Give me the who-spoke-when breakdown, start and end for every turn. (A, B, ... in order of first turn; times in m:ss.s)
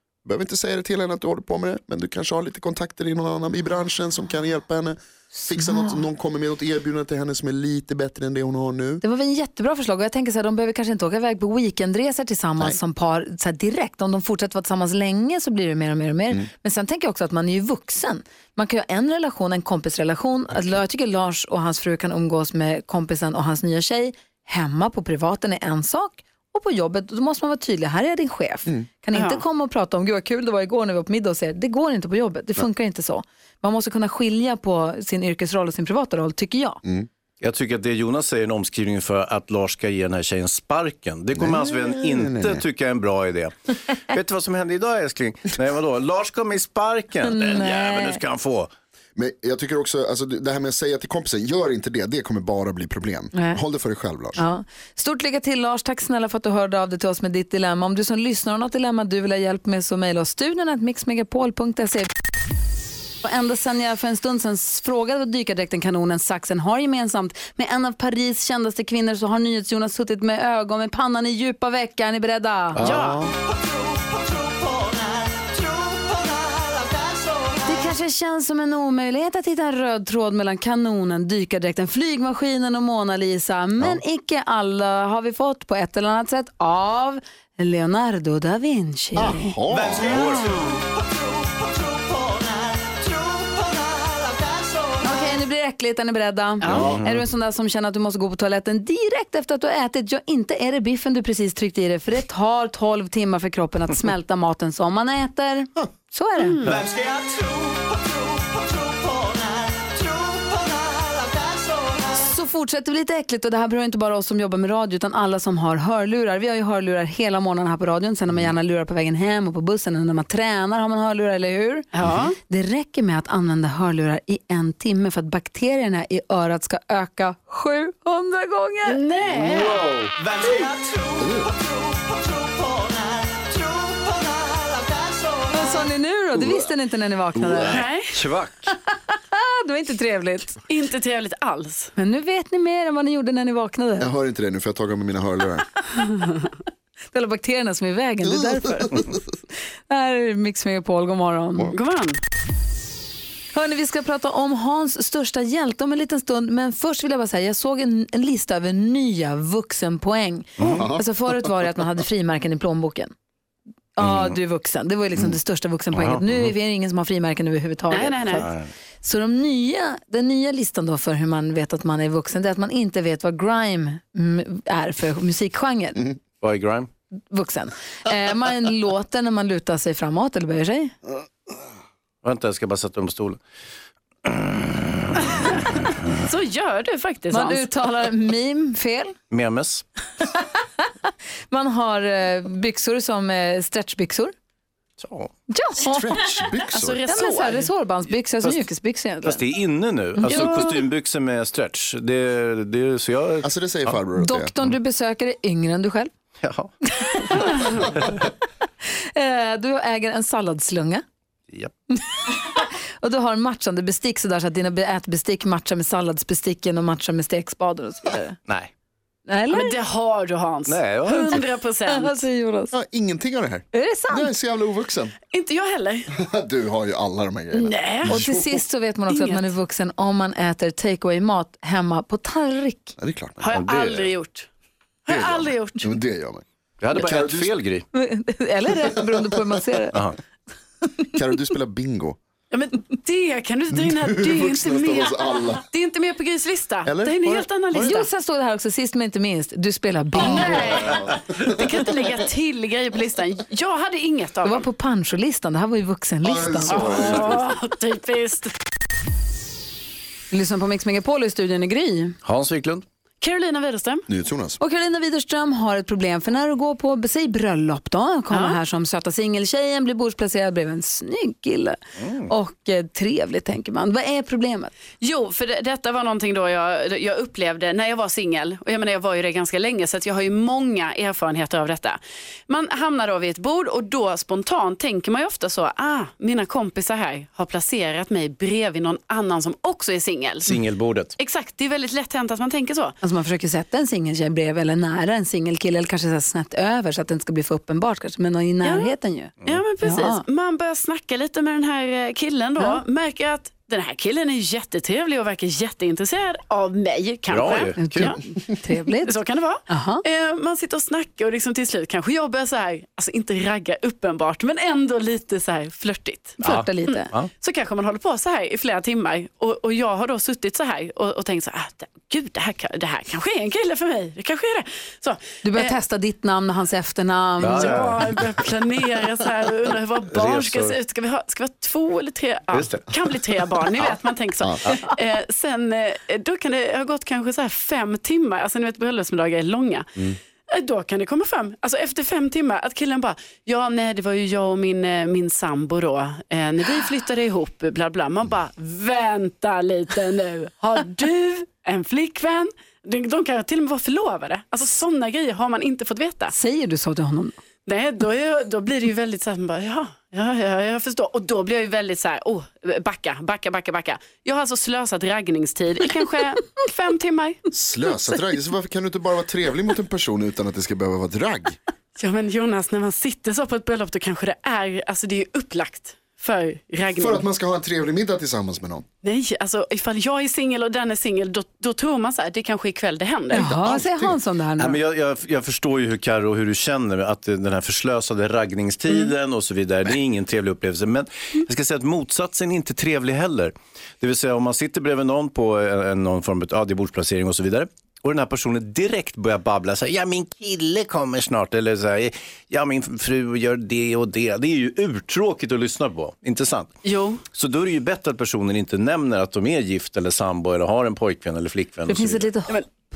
0:00.2-0:09.0 A
0:05.4-0:06.0 B
0:09.0-0:36.8 B
0:29.1-0:29.4 C
0:37.4-0:48.7 D
0:41.4-0:42.6 A
0:47.3-0:48.2 B
0:49.2-0:54.4 A
0:53.4-0:53.6 B
0:54.4-1:02.1 B
1:03.2-1:12.9 B
1:12.8-1:13.3 A
1:12.8-1:13.3 C
1:14.0-1:17.4 C
1:17.6-1:29.5 B
1:29.2-1:30.3 A
1:29.9-1:30.5 D
1:30.2-1:30.8 C
1:35.0-1:46.7 B
1:36.6-1:37.0 C
1:36.7-1:37.2 D
1:46.4-1:46.9 C
1:52.1-2:09.0 B
2:01.9-2:02.4 C
2:08.9-2:09.8 C
2:09.4-2:10.3 D
2:10.5-2:11.0 C
2:11.2-2:11.5 A
2:15.5-2:17.8 B
2:17.6-2:18.8 D
2:17.7-2:18.2 C
2:19.1-2:20.6 B
2:20.7-2:21.9 C
2:22.0-2:24.1 B
2:24.0-2:25.7 A
2:25.9-2:26.4 B
2:27.1-2:29.2 B
2:28.5-2:29.1 A
2:29.9-2:31.7 B
2:31.7-2:32.2 C
2:33.5-2:43.1 B
2:40.6-2:40.8 D
2:40.7-2:41.4 A
2:44.0-2:48.5 B
2:44.0-2:44.3 D
2:45.9-2:46.5 D
2:47.9-2:48.5 C
2:48.3-2:48.7 D
2:49.0-2:56.2 B
2:56.4-2:56.9 D
2:57.3-3:00.9 B
3:02.2-3:03.4 D
3:04.2-3:06.2 D
3:06.2-3:07.7 C
3:07.3-3:09.1 B
3:09.3-3:09.8 D
3:10.2-3:14.3 B
3:15.0-3:15.3 D
3:15.5-3:16.2 B
3:15.8-3:17.0 A
3:16.7-3:17.7 C
3:17.1-3:19.4 B
3:19.2-3:24.0 D
3:20.2-3:20.8 B
3:23.4-3:24.5 A
3:24.2-3:26.1 B
3:26.4-3:26.7 D
3:26.9-3:28.3 B
3:27.3-3:27.9 C
3:29.0-3:31.0 B
3:31.9-3:38.4 B
3:39.3-3:39.8 B
3:39.5-3:42.2 C
3:40.6-3:41.5 D
3:41.9-3:42.7 B
3:42.7-3:45.2 A
3:43.7-3:44.3 B
3:45.3-3:46.1 C
3:46.1-3:48.6 A
3:47.5-3:48.2 C
3:48.1-3:53.0 B
3:49.1-3:49.5 C
3:53.0-3:53.5 A
3:53.4-3:54.5 C
3:53.5-3:54.2 D
3:55.1-3:55.9 C
3:55.1-3:57.5 A
3:56.8-3:57.8 D
3:57.9-4:00.0 B
4:01.1-4:02.2 A
4:02.5-4:08.1 C
4:03.7-4:05.6 A
4:06.8-4:07.5 A
4:07.7-4:11.0 B
4:10.2-4:11.5 A
4:10.2-4:14.7 C
4:14.4-4:17.3 B
4:16.2-4:17.5 A
4:16.6-4:18.5 C
4:20.3-4:22.2 B
4:22.2-4:22.8 D
4:23.2-4:24.1 C
4:24.1-4:24.6 A
4:24.6-4:34.7 B
4:28.3-4:28.6 C
4:32.0-4:32.3 D
4:35.0-4:50.6 C
4:50.5-4:51.2 D
4:51.2-4:53.0 C
4:53.0-5:00.2 B
4:58.6-4:58.9 C
4:59.5-5:08.2 C
5:07.3-5:08.1 D
5:07.8-5:09.2 B
5:09.0-5:25.8 C
5:09.7-5:10.0 B
5:16.4-5:17.1 B
5:16.4-5:17.3 D
5:25.4-5:27.8 B
5:27.4-5:28.4 D
5:27.4-5:56.3 C
5:30.1-5:30.8 D
5:32.5-5:33.1 D
5:56.3-5:57.4 B
5:57.7-6:07.5 C
6:07.5-6:11.6 A
6:12.0-6:17.3 C
6:17.0-6:18.8 A
6:19.0-6:23.5 C
6:23.3-6:24.8 B
6:23.3-6:24.2 A
6:24.6-6:52.3 D
6:46.8-6:47.2 C
6:51.9-6:52.9 B